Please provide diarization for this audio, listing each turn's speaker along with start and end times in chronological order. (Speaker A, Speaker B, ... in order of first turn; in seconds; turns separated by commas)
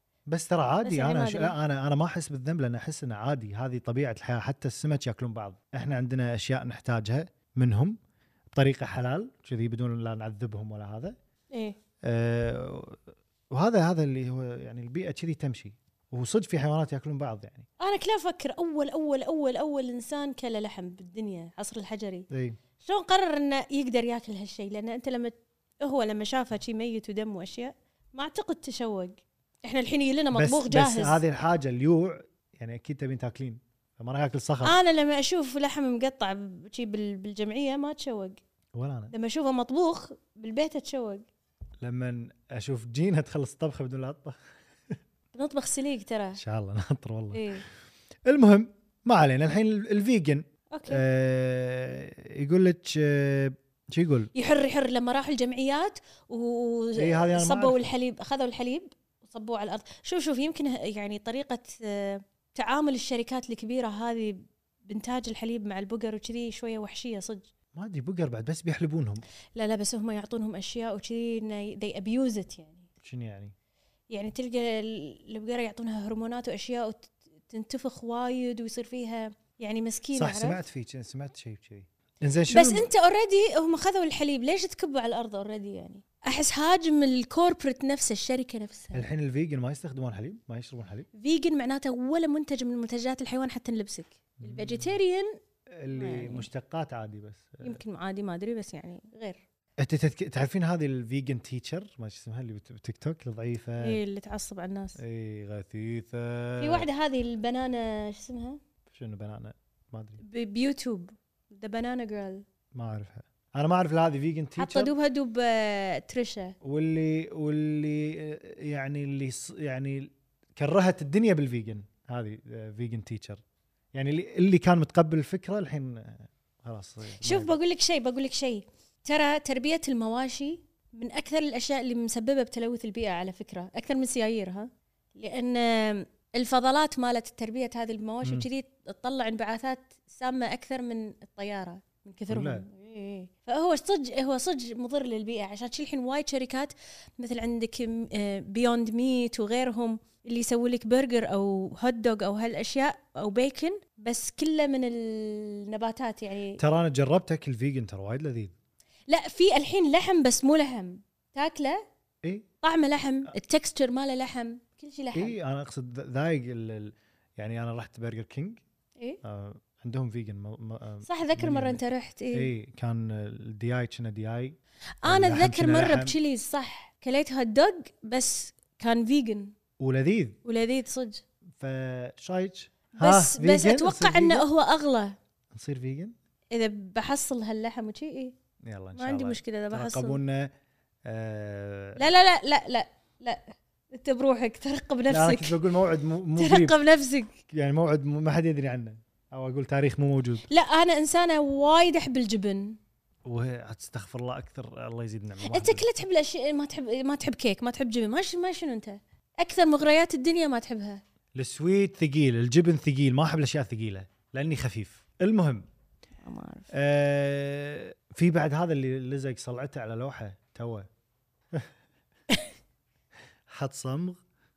Speaker A: 0.3-8.0, Speaker B: 0.8-1.5, Speaker A: 8.5-11.2, Speaker B: 11.5-11.8, Speaker A: 12.0-13.0, Speaker A: 13.5-17.7, Speaker B: 17.8-22.3, Speaker A: 22.3-22.6, Speaker B: 22.8-31.2, Speaker A: 30.3-34.8, Speaker B: 34.6-38.4, Speaker A: 38.7-39.1, Speaker B: 39.1-41.2, Speaker A: 41.8-44.4, Speaker B: 45.3-46.4, Speaker A: 46.4-47.5, Speaker B: 47.3-47.6, Speaker A: 48.2-54.3, Speaker B: 50.7-51.0, Speaker B: 54.3-67.5, Speaker A: 57.0-57.8, Speaker A: 67.7-69.2, Speaker B: 69.5-72.9, Speaker A: 73.0-73.5, Speaker B: 74.1-80.6, Speaker A: 80.1-82.9, Speaker B: 82.5-89.0, Speaker A: 88.9-91.1, Speaker B: 91.2-95.3, Speaker A: 94.4-94.9, Speaker A: 95.7-97.8, Speaker B: 95.9-96.5, Speaker B: 97.6-99.4, Speaker A: 99.8-104.0, Speaker B: 103.8-105.0, Speaker A: 105.0-106.9, Speaker B: 106.6-108.6, Speaker A: 108.9-110.2, Speaker B: 110.2-112.4, Speaker A: 112.7-114.9, Speaker B: 114.6-116.5, Speaker A: 116.6-123.4, Speaker A: 123.9-127.6, Speaker B: 127.2-156.6, Speaker A: 142.3-142.7, Speaker A: 156.6-158.5, Speaker B: 159.1-161.8, Speaker B: 162.6-165.3, Speaker A: 165.1-168.6, Speaker A: 169.2-171.8, Speaker B: 171.0-172.5, Speaker A: 172.3-176.2, Speaker B: 175.0-179.5, Speaker A: 179.8-180.4, Speaker B: 180.4-181.2, Speaker A: 181.6-184.5, Speaker B: 183.0-185.1, Speaker A: 185.5-186.1, Speaker B: 186.5-188.3, Speaker A: 188.6-190.5, Speaker B: 188.9-190.2, Speaker A: 191.1-192.1, Speaker B: 192.0-195.6, Speaker A: 195.1-196.8, Speaker B: 196.3-197.3, Speaker A: 197.5-200.4, Speaker B: 200.5-202.8, Speaker A: 203.2-205.8, Speaker B: 205.4-211.0, Speaker A: 211.3-215.7, Speaker B: 216.2-216.7, Speaker A: 216.7-220.9, Speaker A: 223.5-224.2